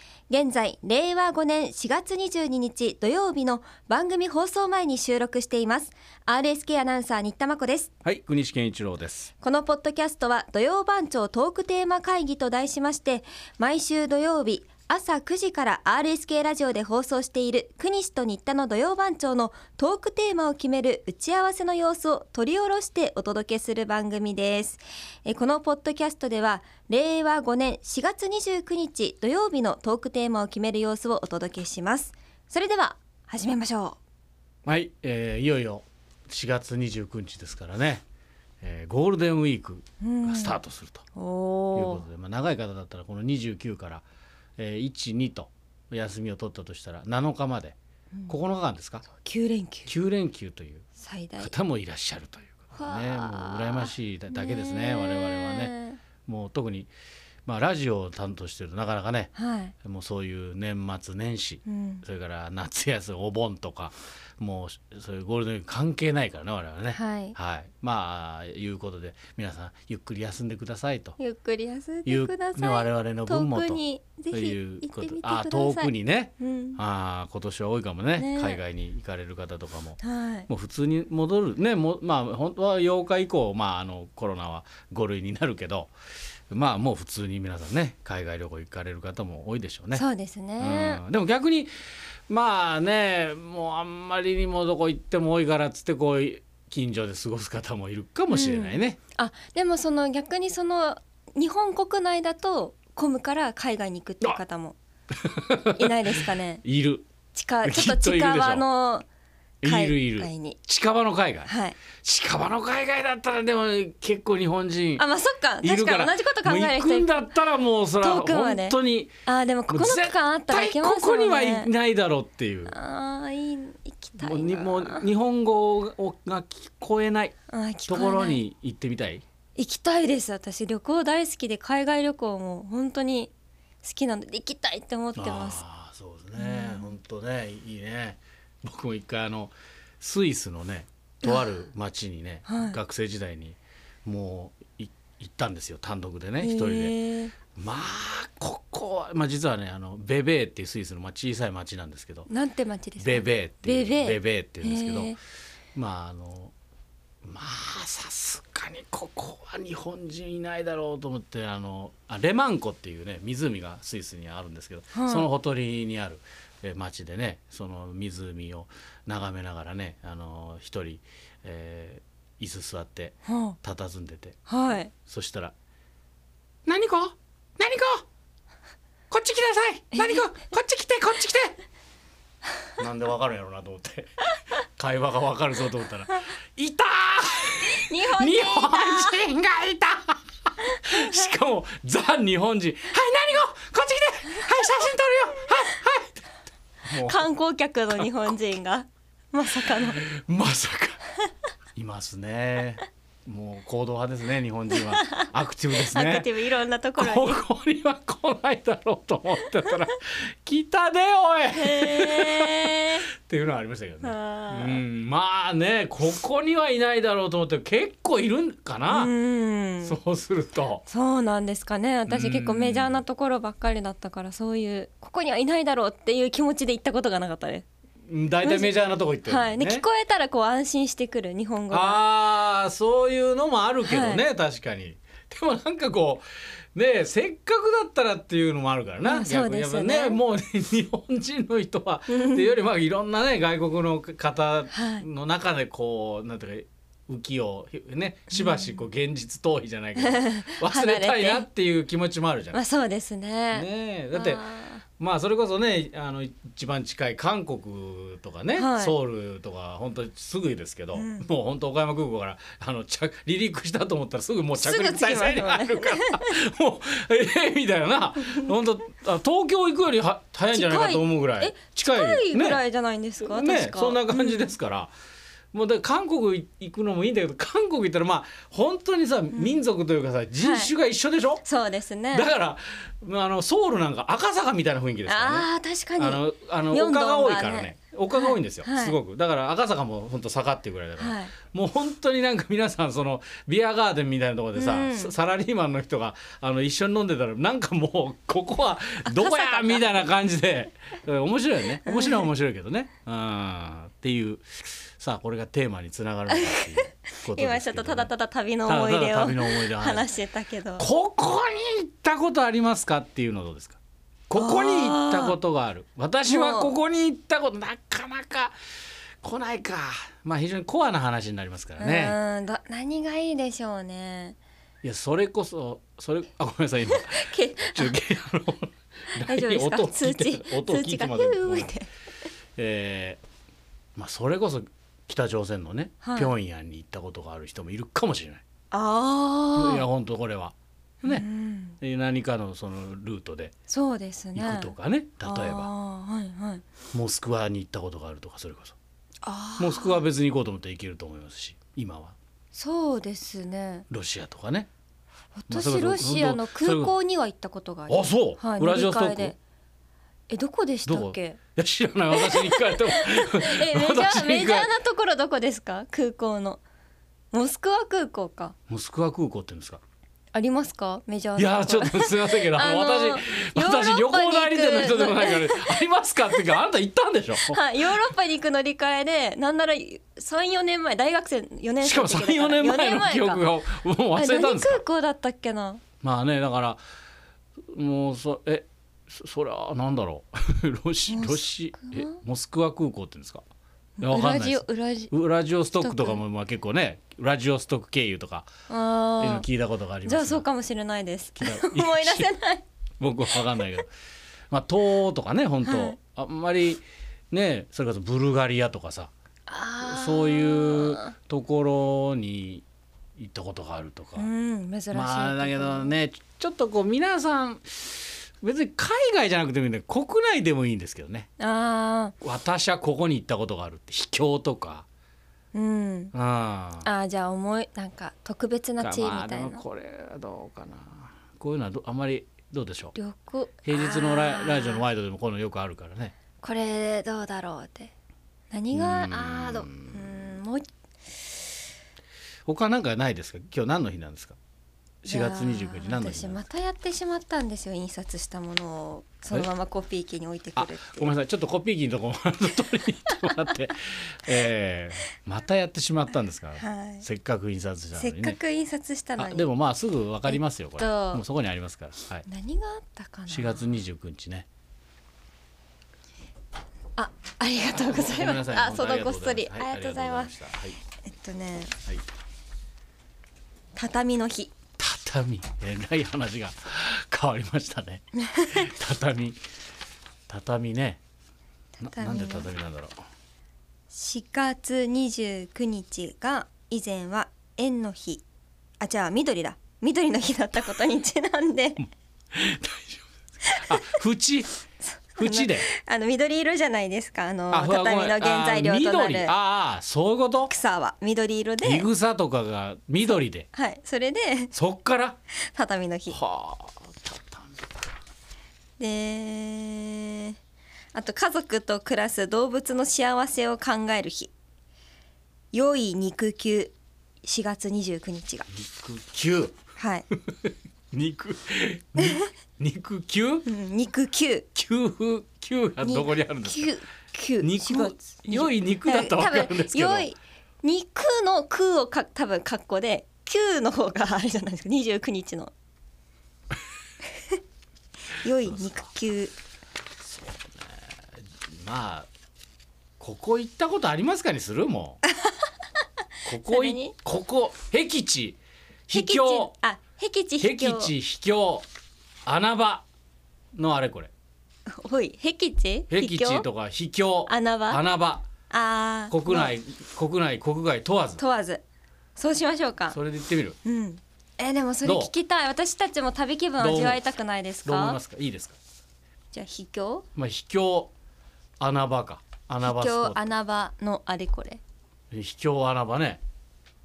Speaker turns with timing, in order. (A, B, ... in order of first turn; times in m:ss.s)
0:00.3-0:07.9 A
0:08.0-0:09.3 B
0:09.4-0:34.0 A
0:34.7-0:38.0 B
0:38.6-0:41.1 B
0:40.0-0:40.6 A
0:41.2-0:42.0 A
0:41.8-0:44.0 B
0:44.6-0:47.8 B
0:48.3-0:49.1 B
0:49.2-0:49.9 A
0:49.9-0:50.9 B
0:51.0-0:51.5 A
0:51.4-0:56.9 B
0:52.7-0:56.0 A
0:57.5-0:59.3 B
0:59.4-0:59.7 A
0:59.8-1:11.2 B
1:01.7-1:02.0 A
1:06.9-1:07.4 A
1:11.2-1:16.8 A
1:12.1-1:25.9 B
1:18.2-1:18.6 A
1:20.0-1:20.5 A
1:26.5-1:30.0 B
1:29.9-1:31.0 A
1:30.6-1:31.7 B
1:32.3-1:39.0 B
1:38.3-1:44.8 A
1:45.2-1:46.0 B
1:45.7-1:46.6 A
1:46.6-1:47.1 B
1:47.3-1:49.1 A
1:47.6-1:48.6 B
1:49.6-1:55.0 B
1:49.6-1:50.6 A
1:51.5-1:51.8 A
1:55.0-1:57.2 A
1:55.6-1:59.2 B
1:58.0-2:01.7 A
1:59.7-2:02.7 B
2:02.7-2:05.1 A
2:04.2-2:07.4 B
2:07.5-2:08.4 A
2:07.9-2:09.2 B
2:09.6-2:13.3 A
2:13.8-2:15.6 A
2:15.2-2:27.0 B
2:16.4-2:16.9 A
2:22.5-2:22.8 A
2:26.4-2:27.3 A
2:27.6-2:32.3 B
2:32.3-2:35.2 A
2:33.0-2:35.2 B
2:35.8-2:36.5 B
2:37.2-2:55.5 B
2:44.9-2:45.3 A
2:53.3-2:53.6 A
2:54.5-2:54.9 A
2:56.7-2:58.0 B
2:59.1-3:01.6 B
2:59.9-3:00.3 A
3:02.8-3:04.1 B
3:04.8-3:16.2 B
3:07.9-3:09.2 A
3:16.8-3:17.3 B
3:17.0-3:20.0 A
3:19.7-3:21.0 B
3:21.8-3:26.3 B
3:24.7-3:27.4 A
3:27.0-3:39.1 B
3:31.6-3:33.1 A
3:34.0-3:34.8 A
3:38.9-3:40.0 A
3:39.8-3:40.8 B
3:40.9-3:47.6 A
3:42.1-3:43.0 B
3:48.1-3:49.8 B
3:48.4-3:48.7 A
3:49.3-3:52.0 A
3:51.7-4:12.6 B
3:53.9-3:54.2 A
3:59.0-4:00.2 A
4:02.1-4:02.5 A
4:04.7-4:05.1 A
4:08.3-4:08.8 A
4:10.0-4:11.5 A
4:12.5-4:14.8 A
4:13.5-4:14.5 B
4:15.0-4:32.6 B
4:18.6-4:18.9 A
4:20.9-4:21.3 A
4:24.5-4:26.4 A
4:30.5-4:34.5 A
4:33.2-4:34.9 B
4:35.5-4:41.4 B
4:39.3-4:39.6 A
4:40.4-4:40.7 A
4:41.4-4:42.3 A
4:42.1-5:08.1 B
4:45.1-4:49.0 A
4:51.0-4:51.3 A
4:54.5-4:55.1 A
4:59.1-4:59.9 A
5:01.8-5:02.3 A
5:06.3-5:10.9 A
5:08.7-5:10.1 B
5:10.8-5:13.8 B
5:14.3-5:18.6 B
5:14.4-5:15.4 A
5:16.3-5:16.7 A
5:19.2-5:22.2 B
5:21.8-5:24.4 A
5:24.8-5:31.7 B
5:26.9-5:28.0 A
5:29.2-5:31.9 A
5:32.6-5:33.2 B
5:34.0-5:38.4 B
5:36.0-5:36.3 A
5:38.7-5:39.8 A
5:39.6-5:41.3 B
5:41.0-5:41.8 A
5:41.8-5:43.5 B
5:43.7-5:46.6 A
5:44.4-5:45.7 B
5:46.9-5:48.8 B
5:49.2-5:50.0 A
5:49.6-5:52.2 B
5:52.5-5:53.9 A
5:53.9-5:54.7 B
5:55.4-5:59.4 A
5:55.5-5:56.9 B
5:57.9-5:59.4 B
6:00.3-6:01.4 A
6:00.9-6:04.7 B
6:02.1-6:06.6 A
6:07.3-6:08.6 A
6:08.7-6:09.8 B
6:10.3-6:15.8 A
6:11.4-6:18.0 B
6:17.5-6:23.5 A
6:21.8-6:24.8 B
6:24.1-6:25.8 A
6:26.0-6:26.8 B
6:27.7-6:33.4 B
6:31.1-6:32.2 A
6:34.0-6:35.1 A
6:34.0-6:38.5 B
6:35.8-6:36.2 A
6:38.7-6:39.5 A
6:39.2-6:40.4 B
6:40.0-6:42.6 A
6:41.4-6:42.3 B
6:43.0-6:43.9 B
6:44.5-6:49.1 B
6:45.6-6:46.0 A
6:49.5-6:51.2 A
6:49.8-6:52.6 B
6:53.2-6:54.3 B
6:54.2-6:55.9 A
6:54.9-7:01.3 B
7:01.4-7:02.1 A
7:02.2-7:04.9 B
7:05.5-7:06.1 A
7:06.1-7:06.9 B
7:06.8-7:09.6 A
7:08.8-7:13.0 B
7:13.0-7:14.8 A
7:13.6-7:16.2 B
7:16.4-7:17.9 A
7:18.5-7:20.7 A
7:18.7-7:20.4 B
7:22.5-7:24.4 B
7:25.0-7:26.4 B
7:25.1-7:31.2 A
7:30.6-7:38.4 B
7:36.6-7:37.1 A
7:38.0-7:39.5 A
7:39.2-7:42.3 B
7:40.3-7:41.2 A
7:42.3-7:43.7 A
7:43.3-7:44.5 B
7:47.0-7:50.3 A
7:47.7-7:50.8 B
7:51.0-7:51.8 A
7:53.8-7:54.5 A
7:54.8-7:59.4 B
7:58.3-7:58.7 A
8:00.3-8:01.0 B
8:01.8-8:02.5 A
8:01.8-8:03.0 B
8:03.9-8:08.2 A
8:08.8-8:11.9 A
8:12.3-8:14.5 B
8:14.8-8:19.3 A
8:15.2-8:15.7 B
8:17.5-8:20.5 B
8:20.5-8:21.9 A
8:21.6-8:23.5 B
8:23.5-8:24.5 A
8:24.5-8:25.2 B
8:25.5-8:26.2 A
8:26.1-8:27.6 B
8:28.8-8:30.4 A
8:30.9-8:34.3 A
8:35.5-8:38.5 A
8:38.5-8:39.6 B
8:39.8-8:40.1 A
8:40.3-8:43.5 B
8:43.5-8:44.5 A
8:44.6-8:46.7 B
8:45.8-8:55.5 A
8:47.4-8:50.1 B
8:58.2-8:59.3 A
9:00.0-9:01.0 B
9:01.5-9:02.1 B
9:03.0-9:05.0 B
9:06.3-9:09.5 B
9:06.4-9:07.0 A
9:08.9-9:10.9 A
9:10.4-9:11.7 B
9:12.3-9:12.8 B
9:13.6-9:14.1 B
9:14.7-9:16.5 A
9:15.9-9:18.2 B
9:17.3-9:17.8 A
9:18.5-9:19.5 A
9:19.1-9:21.2 B
9:21.2-9:21.6 A
9:22.2-9:23.0 A
9:22.9-9:23.6 B
9:23.6-9:28.0 A
9:24.8-9:25.1 B
9:26.6-9:27.0 B
9:27.6-9:28.6 B
9:29.3-9:30.1 A
9:30.2-9:30.9 B
9:31.6-9:33.3 B
9:32.6-9:34.6 A
9:35.1-9:36.2 B